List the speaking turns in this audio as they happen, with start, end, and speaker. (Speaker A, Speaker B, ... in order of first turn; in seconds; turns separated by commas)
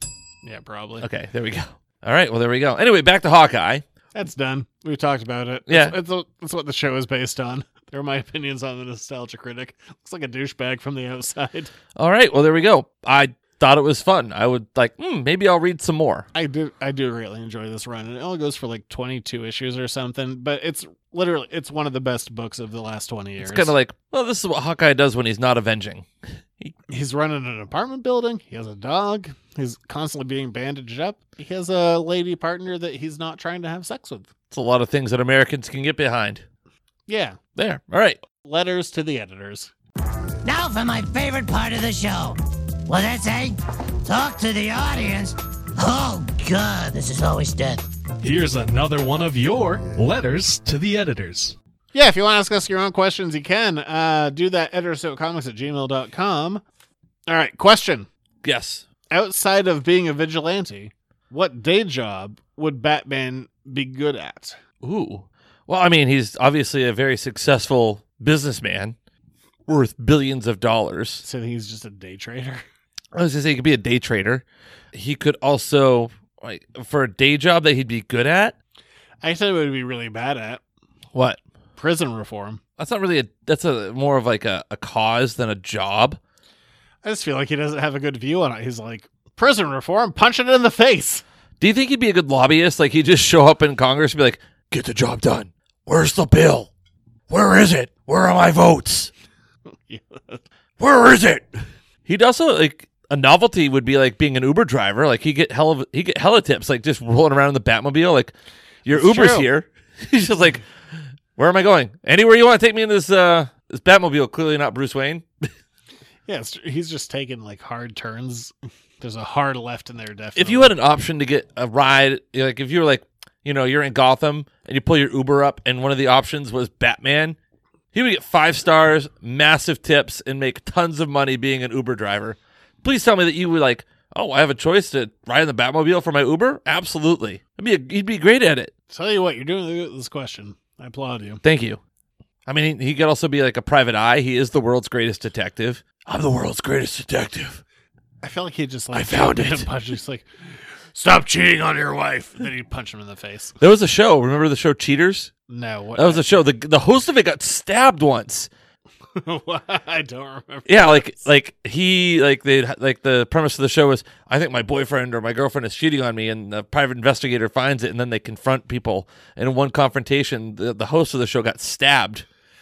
Speaker A: 0.4-1.1, Speaker B: 1.0-3.8, Speaker A: 4.1-11.7, Speaker B: 5.7-6.0, Speaker B: 11.9-16.3, Speaker A: 16.3-23.7, Speaker B: 23.4-26.7, Speaker A: 26.9-34.3, Speaker B: 34.5-36.4, Speaker A: 37.1-37.4, Speaker B: 37.5-38.2, Speaker A: 38.4-39.7, Speaker C: 40.4-47.8, Speaker D: 48.2-51.5, Speaker A: 51.9-56.6, Speaker A: 57.3-58.1, Speaker B: 58.4-58.9, Speaker A: 59.1-64.6, Speaker B: 64.8-69.0, Speaker B: 69.7-71.2, Speaker A: 71.2-72.6, Speaker B: 73.1-78.5, Speaker A: 79.2-80.6, Speaker B: 81.1-81.4, Speaker A: 81.8-82.6, Speaker B: 82.8-86.2, Speaker A: 87.0-91.2, Speaker B: 91.6-96.7, Speaker B: 97.3-99.1, Speaker A: 99.9-100.4, Speaker B: 100.8-101.5, Speaker B: 102.0-108.3, Speaker B: 108.8-110.6, Speaker A: 108.9-109.5, Speaker B: 111.3-115.2, Speaker A: 116.3-120.7, Speaker B: 120.3-127.4, Speaker B: 127.9-138.7, Speaker A: 138.9-141.4, Speaker B: 141.4-141.8, Speaker B: 142.4-147.6, Speaker A: 148.2-150.3, Speaker B: 148.9-149.7, Speaker A: 150.9-153.5, Speaker B: 153.6-155.3, Speaker A: 155.5-156.3, Speaker B: 155.9-158.5, Speaker A: 159.2-161.2, Speaker B: 160.7-172.2